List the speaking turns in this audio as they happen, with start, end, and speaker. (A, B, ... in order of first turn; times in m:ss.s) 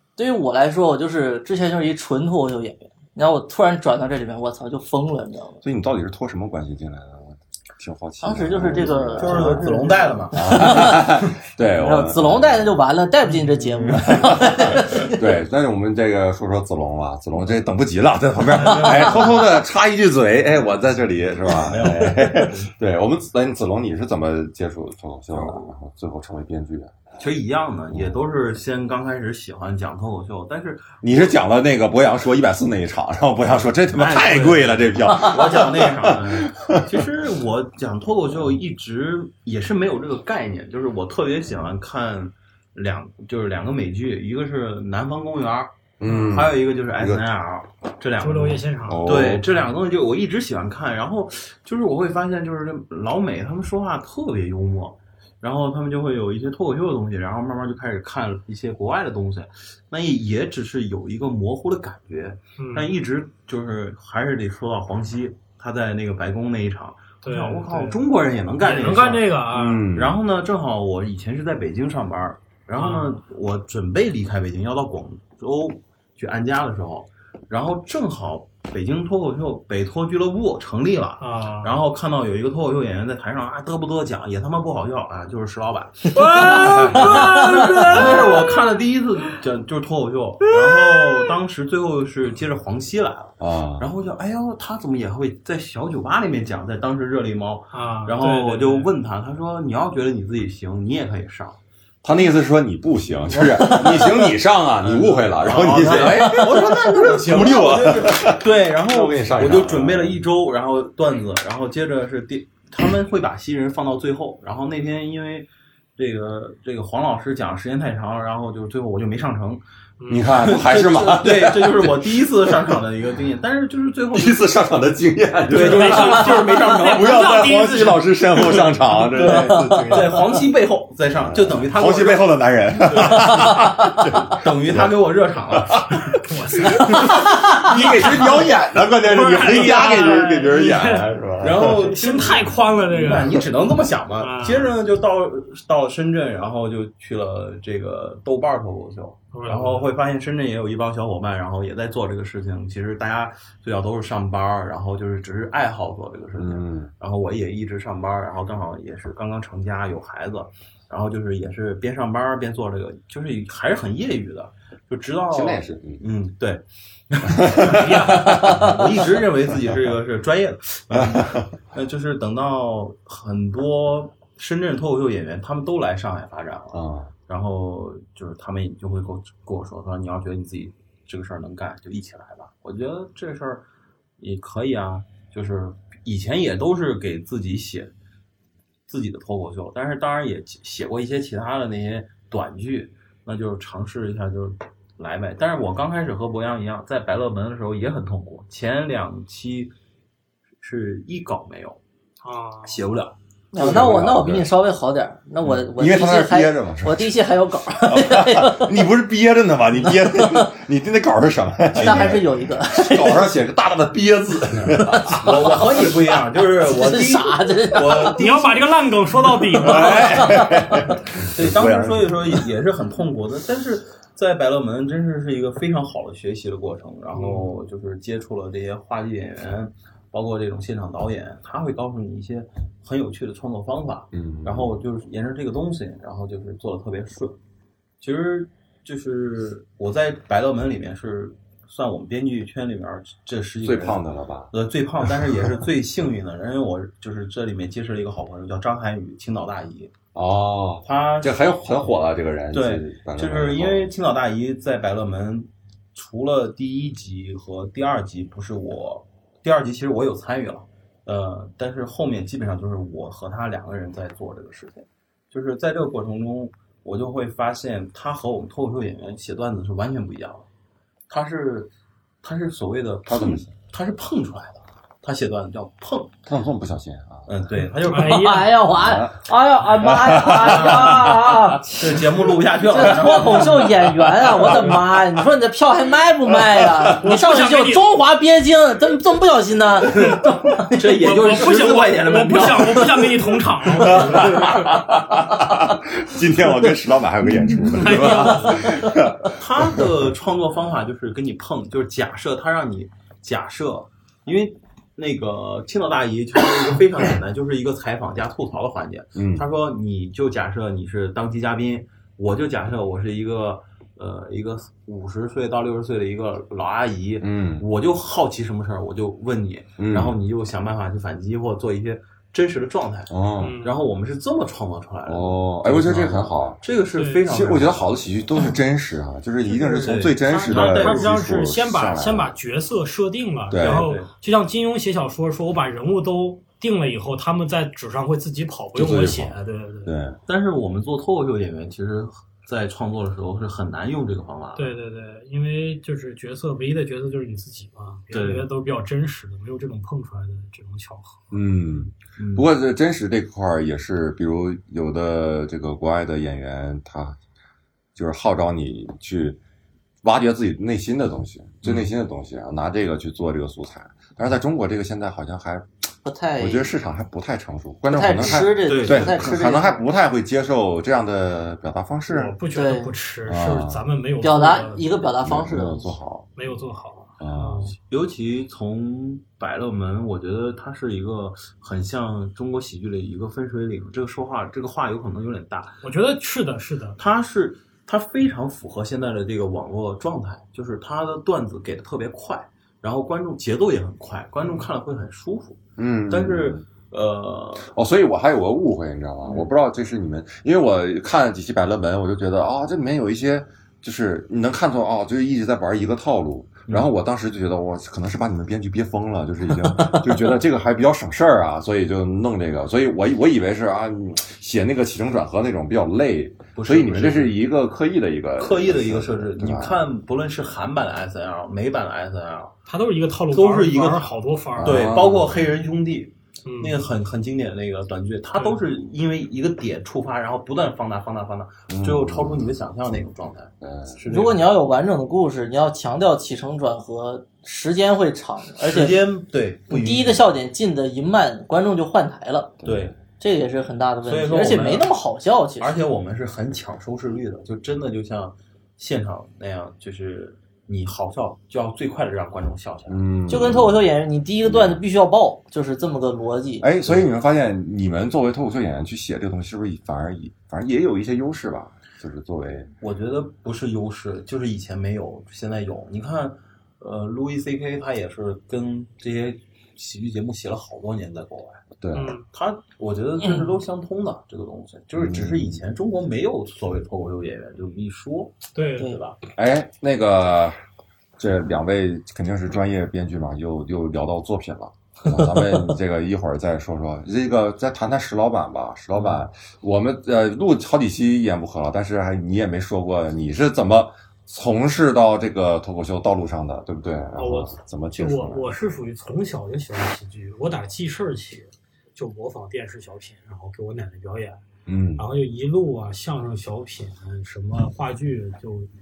0:00.2-0:05.6 A
0:05.6-0:09.7 B
0:08.2-0:11.1 A
0:09.2-0:11.0 C
0:10.3-0:12.8 B
0:11.8-0:15.4 A
0:13.9-0:27.0 B
0:18.5-0:19.4 C
0:21.6-0:22.7 C
0:25.3-0:25.7 C
0:27.2-0:31.3 C
0:27.9-0:28.2 B
0:31.0-0:37.1 B
0:34.0-1:09.3 C
0:46.0-0:47.2 B
0:46.0-0:46.4 D
0:48.2-0:49.2 D
0:48.8-0:49.5 B
1:02.6-1:02.9 D
1:07.2-1:08.0 D
1:08.6-1:09.9 D
1:09.5-1:10.2 B
1:09.9-1:41.6 C
1:12.8-1:13.2 D
1:21.2-1:21.8 D
1:26.1-1:28.6 D
1:27.0-1:27.8 A
1:30.7-1:31.3 D
1:33.4-1:33.9 B
1:37.7-1:38.9 D
1:42.0-1:50.2 B
1:43.6-1:44.2 A
1:44.9-1:59.6 C
2:00.0-2:00.5 D
2:00.1-2:02.8 B
2:00.4-2:04.5 C
2:04.1-2:10.4 B
2:05.5-2:07.5 C
2:05.5-2:08.8 D
2:09.1-2:12.3 C
2:09.3-2:09.9 A
2:11.2-2:15.0 B
2:12.9-2:13.6 C
2:14.3-2:15.9 C
2:15.5-2:16.1 B
2:16.1-2:23.5 D
2:16.6-2:21.9 B
2:21.4-3:03.6 C
2:24.2-2:24.7 D
2:29.3-2:30.0 D
2:36.4-2:36.9 B
2:45.3-2:46.0 B
2:47.3-2:49.1 B
2:47.6-2:48.3 D
2:50.9-2:51.5 B
2:56.7-2:57.1 B
3:04.2-3:07.9 C
3:08.9-3:19.7 C
3:20.6-3:21.8 C
3:22.2-3:22.8 D
3:22.6-3:23.2 C
3:23.5-3:28.7 A
3:23.5-3:24.5 B
3:25.4-3:27.1 B
3:27.9-3:36.0 B
3:29.9-3:30.5 A
3:31.8-3:33.3 A
3:34.9-3:35.2 A
3:35.2-3:38.7 C
3:36.6-3:38.2 A
3:37.9-3:40.5 D
3:39.5-3:42.5 B
3:39.6-3:40.0 C
3:39.9-3:40.9 A
3:41.1-3:57.4 C
3:47.1-3:47.5 D
3:54.1-3:54.8 B
3:58.0-4:04.0 C
4:03.6-4:04.5 B
4:04.5-4:09.9 C
4:05.2-4:05.5 B
4:10.2-4:13.9 B
4:10.8-4:12.0 C
4:12.5-4:30.5 C
4:31.1-4:31.7 C
4:32.2-4:36.2 C
4:33.1-4:33.5 B
4:36.3-4:37.3 B
4:37.3-4:38.5 C
4:37.8-4:38.5 D
4:37.9-4:41.7 A
4:38.7-4:41.8 B
4:40.3-4:41.1 C
4:41.6-4:43.9 C
4:42.6-4:50.8 A
4:43.5-4:44.8 B
4:46.4-4:47.0 B
4:47.0-4:47.9 D
4:50.7-4:54.6 C
4:50.8-4:54.7 D
4:53.7-5:00.1 B
4:57.7-4:58.8 D
4:59.3-5:27.8 C
5:09.2-5:09.5 B
5:17.2-5:17.6 B
5:19.8-5:20.2 B
5:23.1-5:23.6 B
5:23.4-5:23.8 D
5:25.0-5:26.6 B
5:26.9-5:27.2 D
5:27.3-5:32.3 B
5:29.5-5:31.2 C
5:30.2-5:39.9 D
5:33.5-5:33.9 B
5:33.6-5:34.1 C
5:38.8-5:40.2 B
5:40.3-5:44.8 C
5:44.6-5:51.2 D
5:48.1-5:48.5 C
5:51.3-5:57.2 B
5:52.2-5:52.5 C
5:58.0-5:59.4 B
6:00.0-6:05.7 B
6:01.6-6:01.9 C
6:06.0-6:06.7 A
6:06.4-6:12.3 B
6:07.9-6:09.8 A
6:08.2-6:09.4 C
6:12.1-6:15.1 D
6:12.5-6:12.9 A
6:13.3-6:13.8 B
6:14.2-6:15.9 A
6:15.2-6:16.3 B
6:16.4-6:17.7 D
6:17.2-6:17.7 B
6:17.9-6:25.8 C
6:25.8-6:27.0 D
6:27.0-6:37.7 C
6:35.8-6:36.6 B
6:37.6-6:59.8 B
6:56.6-6:57.4 C
6:58.4-7:02.5 C
7:02.7-7:04.9 D
7:03.3-7:14.5 C
7:04.6-7:05.5 B
7:06.4-7:06.8 D
7:08.4-7:08.6 D
7:11.7-7:12.5 B
7:13.6-7:14.0 B
7:14.1-7:19.0 A
7:18.6-7:20.2 C
7:19.7-7:22.6 A
7:22.6-7:23.0 B
7:22.6-7:22.9 C
7:23.2-7:25.7 A
7:24.0-7:24.9 C
7:25.6-7:33.1 C
7:32.9-7:33.8 B
7:33.3-7:36.7 A
7:34.4-7:34.8 B
7:36.6-7:42.7 B
7:42.8-7:51.6 C
7:51.8-7:52.2 B
7:51.9-7:52.3 D
7:52.3-7:59.2 C
7:55.0-7:55.6 B
7:58.6-7:59.0 D
7:59.4-8:00.6 B
8:01.2-8:18.5 B
8:17.2-8:24.4 D
8:24.7-8:25.1 B
8:25.0-8:28.7 D